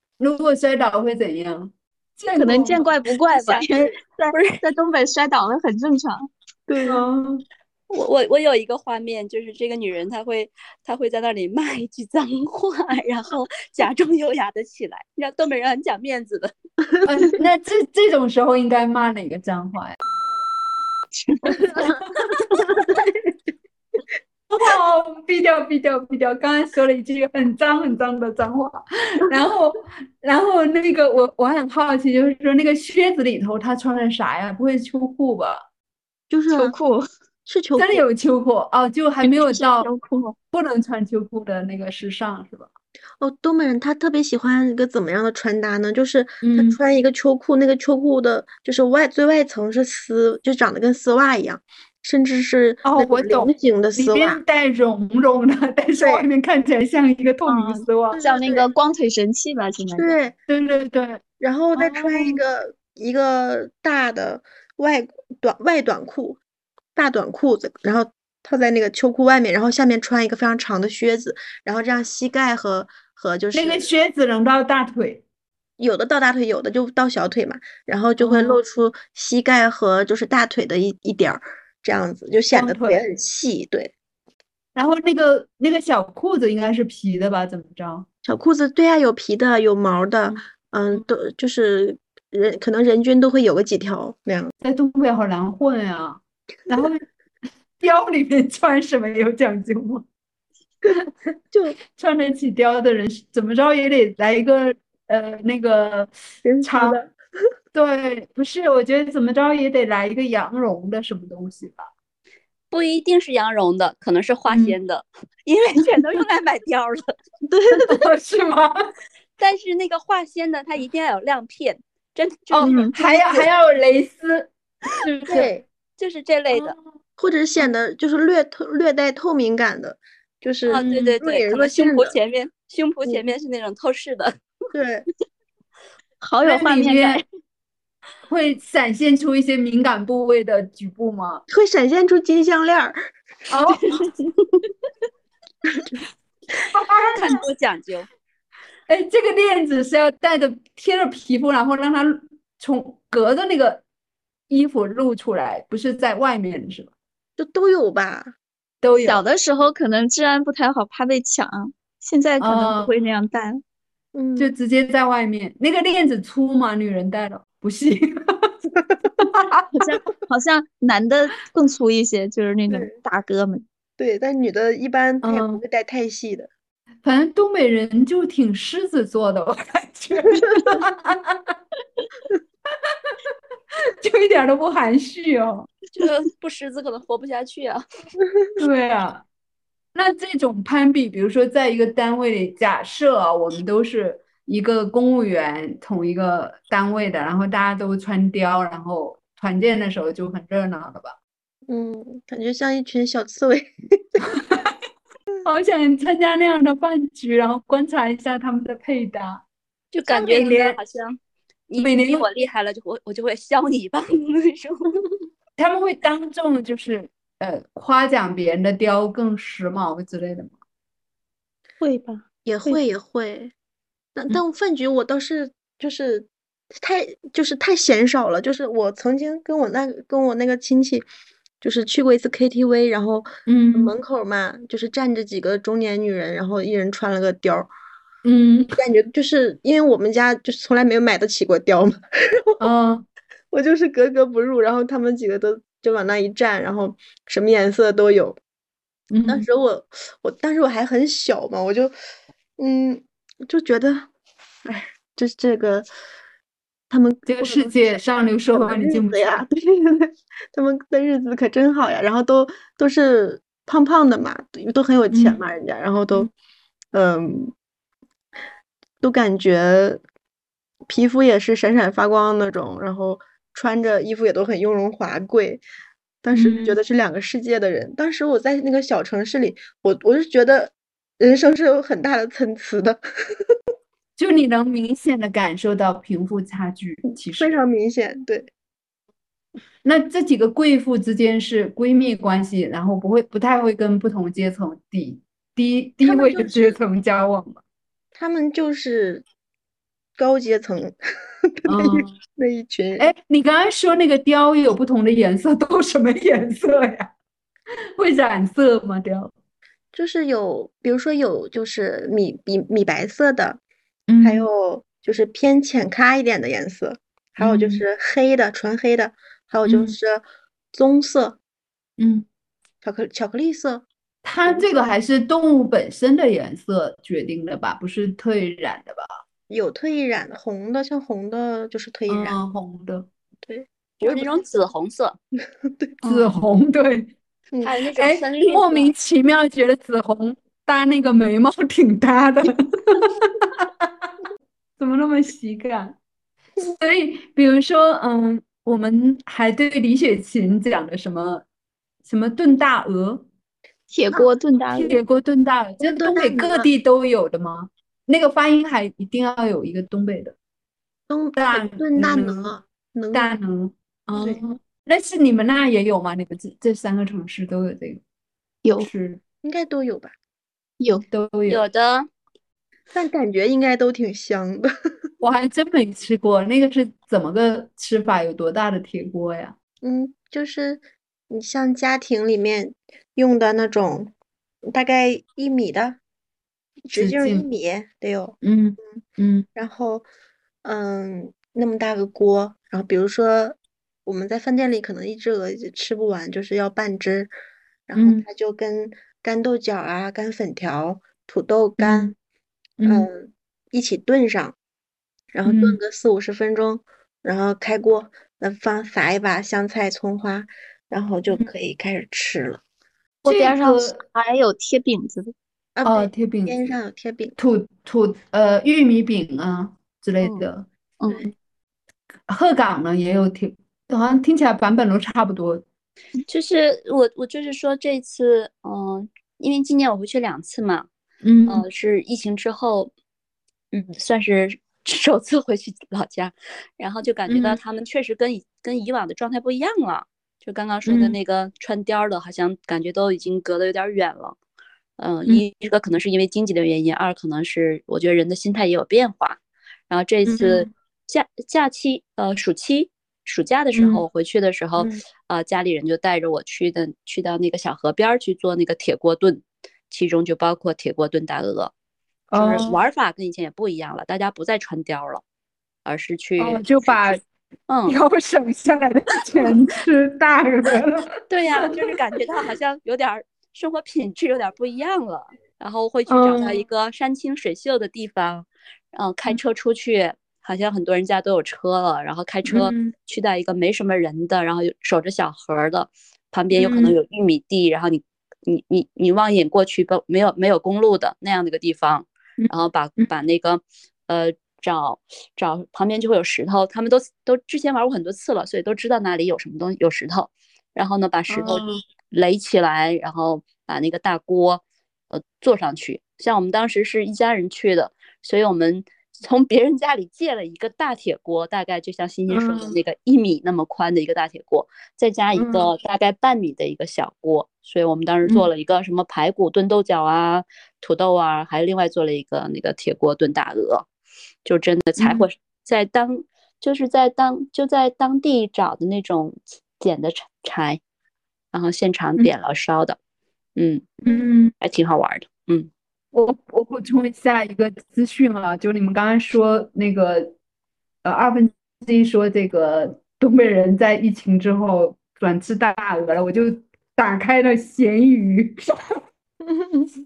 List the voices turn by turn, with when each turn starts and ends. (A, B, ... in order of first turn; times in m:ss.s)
0:00.2-0:02.9 A
0:02.4-0:06.3 B
0:03.3-0:03.7 C
0:04.3-0:04.6 C
0:06.7-0:07.0 D
0:06.8-0:07.4 A
0:07.9-0:16.5 C
0:17.0-0:20.0 A
0:21.1-0:22.0 B
0:21.8-0:23.0 A
0:24.5-0:35.7 A
0:36.3-0:36.8 D
0:36.5-0:37.1 B
0:37.5-0:38.0 D
0:37.8-0:39.9 A
0:39.2-0:40.4 B
0:40.5-0:42.7 A
0:43.2-0:54.4 D
0:46.4-0:46.8 A
0:52.8-0:58.2 A
0:56.0-0:56.3 D
0:57.5-1:00.1 B
0:58.1-0:58.7 D
1:00.0-1:00.4 D
1:00.5-1:01.2 A
1:01.4-1:06.4 D
1:01.7-1:02.4 A
1:07.0-1:13.9 D
1:13.5-1:15.2 A
1:15.8-1:23.9 D
1:18.2-1:18.6 A
1:22.5-1:23.0 A
1:24.8-1:28.1 A
1:28.2-1:34.5 D
1:34.6-1:37.0 A
1:37.8-1:40.0 A
1:41.5-1:41.8 D
1:41.9-1:47.0 A
1:46.4-1:47.2 D
1:47.7-1:51.9 A
1:52.7-1:57.2 C
1:54.5-1:54.8 A
1:57.5-1:58.0 D
1:57.8-1:58.8 A
1:59.4-2:03.5 C
2:02.5-2:05.5 A
2:02.6-2:02.9 B
2:05.3-2:05.6 D
2:06.0-2:06.8 C
2:07.2-2:12.2 D
2:10.7-2:14.3 C
2:10.8-2:11.2 A
2:14.7-2:15.1 D
2:16.2-2:17.2 B
2:16.4-2:17.2 A
2:18.3-2:21.4 A
2:21.5-2:23.1 D
2:23.5-2:24.0 A
2:26.7-2:27.4 A
2:27.0-2:28.1 C
2:28.9-2:33.8 A
2:34.5-2:36.9 A
2:37.4-2:38.4 D
2:38.8-2:39.2 A
2:39.0-2:43.6 B
2:42.4-2:42.9 A
2:44.2-2:44.5 D
2:44.4-2:48.5 A
2:49.2-2:49.9 A
2:49.7-2:53.6 B
2:52.7-2:53.0 D
2:54.0-2:56.5 D
2:55.2-2:55.6 A
2:57.0-3:01.6 A
3:04.0-3:05.7 A
3:05.9-3:07.8 C
3:08.6-3:09.2 A
3:09.9-3:21.2 A
3:21.7-3:24.2 D
3:24.2-3:24.7 A
3:25.4-3:29.4 A
3:29.9-3:31.2 C
3:30.1-3:30.8 A
3:31.7-3:35.0 C
3:31.8-3:32.3 A
3:35.6-3:40.6 A
3:41.8-3:42.2 B
3:42.4-3:43.5 D
3:44.2-3:51.1 D
3:51.6-3:57.7 D
3:53.5-3:53.9 A
3:58.2-3:58.8 A
3:58.8-4:02.6 D
4:02.6-4:03.1 A
4:03.5-4:08.4 D
4:09.1-4:09.5 A
4:09.3-4:11.9 D
4:12.6-4:14.1 D
4:14.6-4:15.9 D
4:16.9-4:18.0 D
4:17.3-4:19.2 A
4:18.5-4:26.3 D
4:25.1-4:25.4 A
4:26.9-4:27.5 D
4:29.0-4:30.0 D
4:30.9-4:35.6 D
4:36.2-4:43.0 D
4:36.3-4:36.8 A
4:44.2-4:47.6 A
4:47.3-4:48.5 D
4:49.8-4:57.6 A
4:56.0-4:56.8 D
4:58.2-4:59.2 D
5:00.2-5:01.0 D
5:01.6-5:03.1 D
5:01.7-5:02.2 A
5:03.0-5:07.1 A
5:08.0-5:09.3 A
5:09.9-5:13.6 D
5:14.1-5:14.5 A
5:14.2-5:21.4 D
5:17.4-5:17.8 A
5:19.6-5:20.0 A
5:22.0-5:22.3 A
5:22.8-5:23.9 D
5:24.2-5:29.2 A
5:24.5-5:24.8 D
5:29.5-5:32.4 D
5:32.1-5:33.1 A
5:33.4-5:34.4 D
5:34.0-5:35.2 C
5:35.6-5:36.0 D
5:36.0-5:37.1 A
5:37.6-5:38.9 C
5:38.0-5:43.9 A
5:44.8-5:46.0 A
5:46.6-5:51.4 A
5:52.0-5:53.3 A
5:53.9-5:55.0 B
5:54.7-6:00.4 A
5:55.8-5:56.7 D
6:01.1-6:03.3 D
6:01.4-6:02.6 A
6:03.1-6:08.0 A
6:04.2-6:04.4 D
6:08.6-6:08.9 B
6:08.8-6:09.2 A
6:09.4-6:10.2 D
6:10.8-6:11.0 B
6:11.1-6:11.6 A
6:11.5-6:12.1 C
6:12.9-6:14.7 D
6:15.2-6:19.6 A
6:19.8-6:24.1 D
6:24.7-6:26.0 D
6:26.9-6:28.4 D
6:26.9-6:27.5 A
6:28.4-6:29.5 A
6:29.6-6:30.0 D
6:30.6-6:37.3 D
6:37.9-6:42.2 D
6:38.0-6:38.3 A
6:41.8-6:42.1 A
6:42.8-6:43.1 A
6:42.8-6:44.6 D
6:45.3-6:52.6 D
6:45.4-6:45.8 A
6:53.2-6:54.0 A
6:53.2-6:55.3 B
6:55.8-6:57.4 D
6:55.8-6:56.6 A
6:57.4-7:00.7 A
7:01.0-7:01.3 B
7:02.3-7:05.6 A
7:06.3-7:10.9 C
7:11.2-7:11.6 A
7:11.5-7:12.9 C
7:13.7-7:24.4 C
7:17.3-7:17.6 A
7:20.9-7:21.2 A
7:25.0-7:41.7 C
7:30.3-7:30.7 A
7:33.7-7:34.0 A
7:42.3-7:42.8 A
7:42.3-7:45.2 C
7:45.8-7:47.0 C
7:46.4-7:47.2 A
7:47.7-7:48.0 C
7:47.9-7:51.1 A
7:51.3-8:43.9 C
7:51.6-7:51.9 A
7:56.1-7:56.6 A
8:02.5-8:02.9 A
8:06.6-8:07.0 A
8:12.4-8:13.1 A
8:21.3-8:21.8 A
8:32.3-8:32.8 A
8:35.4-8:35.7 A
8:44.4-8:50.8 C
8:45.0-8:45.3 A
8:51.5-8:53.0 C
8:53.6-8:54.0 C
8:54.0-8:54.5 A
8:54.6-8:55.7 C
8:56.1-9:00.4 A
9:01.0-9:08.7 A
9:09.4-9:09.9 D